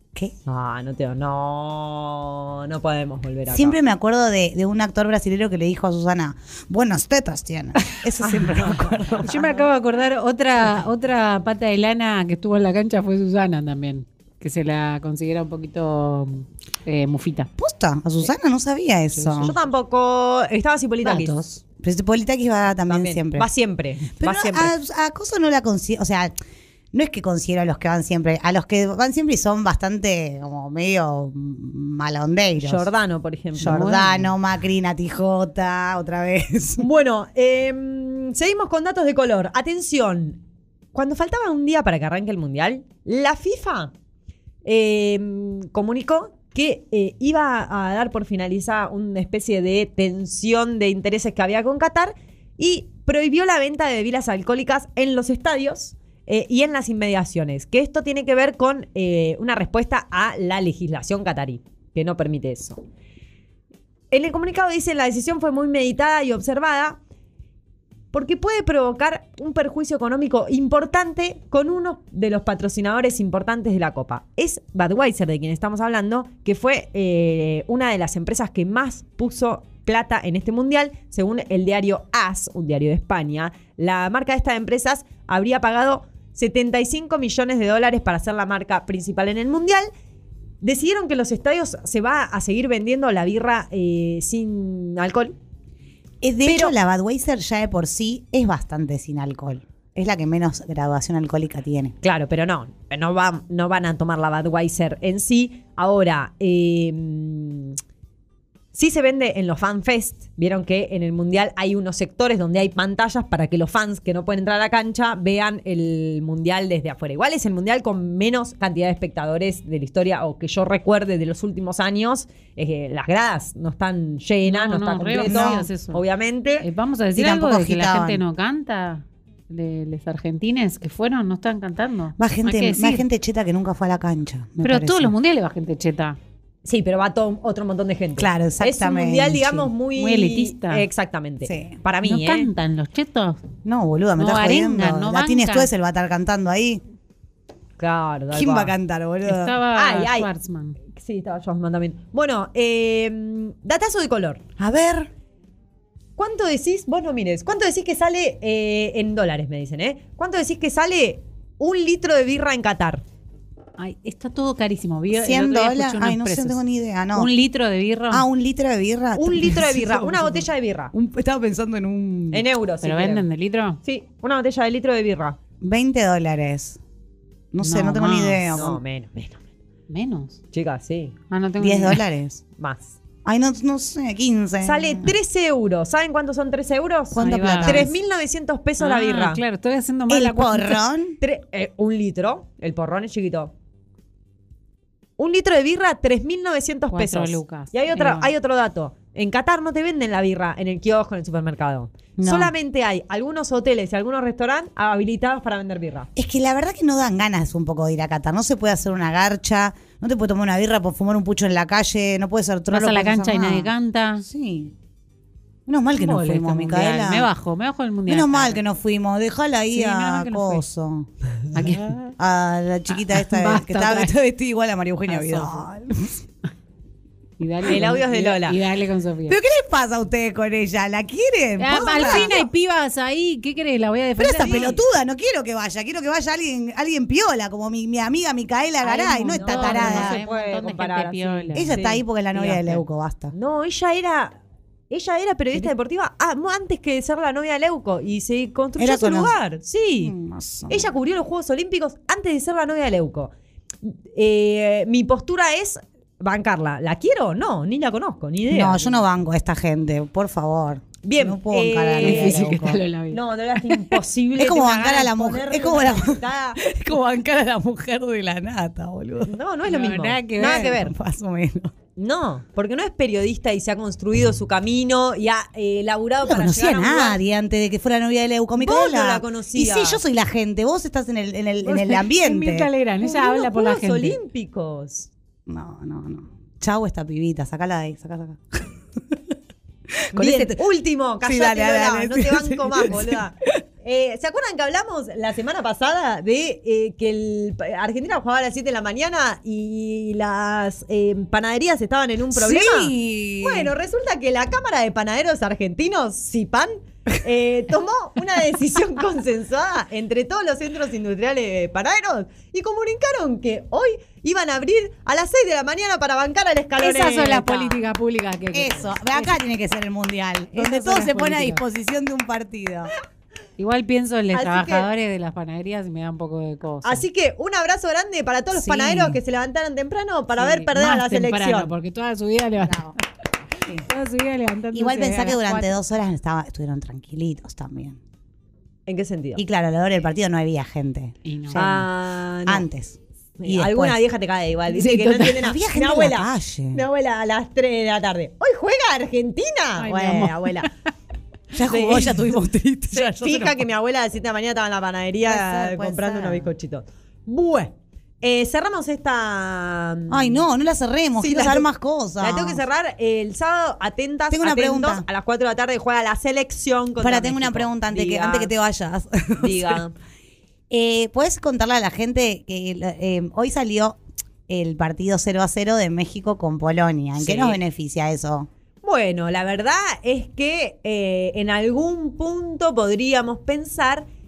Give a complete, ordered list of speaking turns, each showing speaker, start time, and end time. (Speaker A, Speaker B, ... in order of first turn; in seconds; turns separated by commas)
Speaker A: 0.5-3.8, Speaker B: 3.5-9.5, Speaker A: 8.2-9.6, Speaker C: 9.2-17.5, Speaker B: 17.6-19.5, Speaker C: 19.1-19.6, Speaker A: 19.4-21.4, Speaker C: 21.0-21.6, Speaker B: 21.6-23.5, Speaker A: 22.9-24.7, Speaker B: 24.2-26.3, Speaker B: 26.9-32.9, Speaker A: 32.6-34.0, Speaker B: 33.6-36.8, Speaker C: 33.6-34.3, Speaker A: 36.8-40.4, Speaker A: 40.9-43.9, Speaker A: 44.6-62.8, Speaker A: 64.1-67.0, Speaker A: 68.1-89.9, Speaker A: 90.6-95.3, Speaker B: 96.2-101.9, Speaker A: 96.4-96.7, Speaker A: 102.0-107.8, Speaker A: 108.7-126.7, Speaker C: 124.5-126.0, Speaker B: 125.2-125.7, Speaker C: 126.6-133.0, Speaker B: 127.1-128.2, Speaker B: 132.2-135.1, Speaker C: 134.6-136.2, Speaker A: 136.6-142.5, Speaker B: 138.2-139.7, Speaker C: 139.9-140.8, Speaker B: 141.4-141.7, Speaker C: 142.0-143.4, Speaker B: 143.6-146.8, Speaker C: 144.2-145.7, Speaker A: 147.8-148.7, Speaker B: 148.3-149.6, Speaker C: 149.2-150.8, Speaker A: 149.7-150.3, Speaker A: 150.9-154.4, Speaker B: 154.6-155.1, Speaker A: 156.2-163.0, Speaker C: 163.8-166.6, Speaker B: 165.1-167.3, Speaker C: 167.1-168.2, Speaker B: 168.1-172.4, Speaker A: 169.2-170.9, Speaker A: 172.3-173.2, Speaker C: 172.8-173.8, Speaker A: 173.8-175.4, Speaker B: 175.6-176.8, Speaker B: 177.5-178.8, Speaker C: 177.6-178.5, Speaker A: 178.5-179.4, Speaker C: 179.9-180.4, Speaker A: 180.5-181.1, Speaker C: 181.3-182.0, Speaker B: 181.6-182.4, Speaker A: 182.6-182.9, Speaker B: 183.2-185.1, Speaker A: 184.6-189.4, Speaker B: 187.1-187.9, Speaker C: 187.2-187.9, Speaker C: 188.8-190.8, Speaker B: 190.1-191.2, Speaker A: 191.2-193.5, Speaker A: 195.2-206.1, Speaker C: 196.9-198.3, Speaker B: 202.2-202.5, Speaker B: 206.2-214.7, Speaker C: 212.7-214.2, Speaker B: 215.7-217.3, Speaker C: 215.9-218.6, Speaker B: 218.1-221.1, Speaker C: 219.7-220.6, Speaker C: 221.5-222.1, Speaker B: 222.2-226.2, Speaker C: 222.9-224.1, Speaker C: 225.1-225.6, Speaker C: 227.4-229.4, Speaker A: 227.7-228.6, Speaker B: 229.3-232.4, Speaker C: 231.6-234.8, Speaker A: 231.9-232.3, Speaker B: 234.2-240.2, Speaker A: 234.3-234.8, Speaker A: 238.8-242.7, Speaker C: 239.3-241.8, Speaker B: 241.5-243.3, Speaker A: 243.3-244.4, Speaker A: 244.9-250.1, Speaker B: 248.8-249.3, Speaker B: 250.0-250.9, Speaker A: 250.7-259.0, Speaker B: 258.5-262.8, Speaker A: 261.0-266.6, Speaker C: 262.0-263.9, Speaker B: 264.4-269.3, Speaker A: 269.3-270.9, Speaker C: 269.7-270.8, Speaker B: 270.4-271.7, Speaker A: 271.9-277.2, Speaker B: 276.2-282.7, Speaker A: 278.6-280.0, Speaker C: 281.6-284.2, Speaker A: 283.0-285.1, Speaker B: 285.5-289.2, Speaker B: 290.0-290.6, Speaker A: 290.1-317.6, Speaker B: 291.2-293.3, Speaker B: 302.3-303.7, Speaker C: 316.8-319.3, Speaker B: 318.5-322.9, Speaker C: 320.5-321.6, Speaker C: 323.6-327.0, Speaker A: 324.3-324.9, Speaker A: 326.8-331.7, Speaker B: 328.6-329.1, Speaker C: 330.4-333.0, Speaker B: 332.6-332.9, Speaker C: 333.8-335.7, Speaker B: 334.7-338.0, Speaker A: 338.9-339.4, Speaker B: 339.4-341.9, Speaker C: 341.2-341.6, Speaker A: 341.6-342.6, Speaker B: 342.4-343.9, Speaker A: 343.4-350.7, Speaker C: 344.7-345.4, Speaker B: 345.3-346.8, Speaker C: 349.8-350.7, Speaker B: 351.5-353.6, Speaker A: 351.7-352.2, Speaker A: 352.9-360.4, Speaker B: 355.2-356.5, Speaker B: 360.1-362.6, Speaker A: 361.2-368.5, Speaker B: 364.3-365.1, Speaker B: 367.0-369.8, Speaker A: 369.4-369.9, Speaker B: 370.7-378.5, Speaker A: 377.2-377.6, Speaker A: 378.8-384.0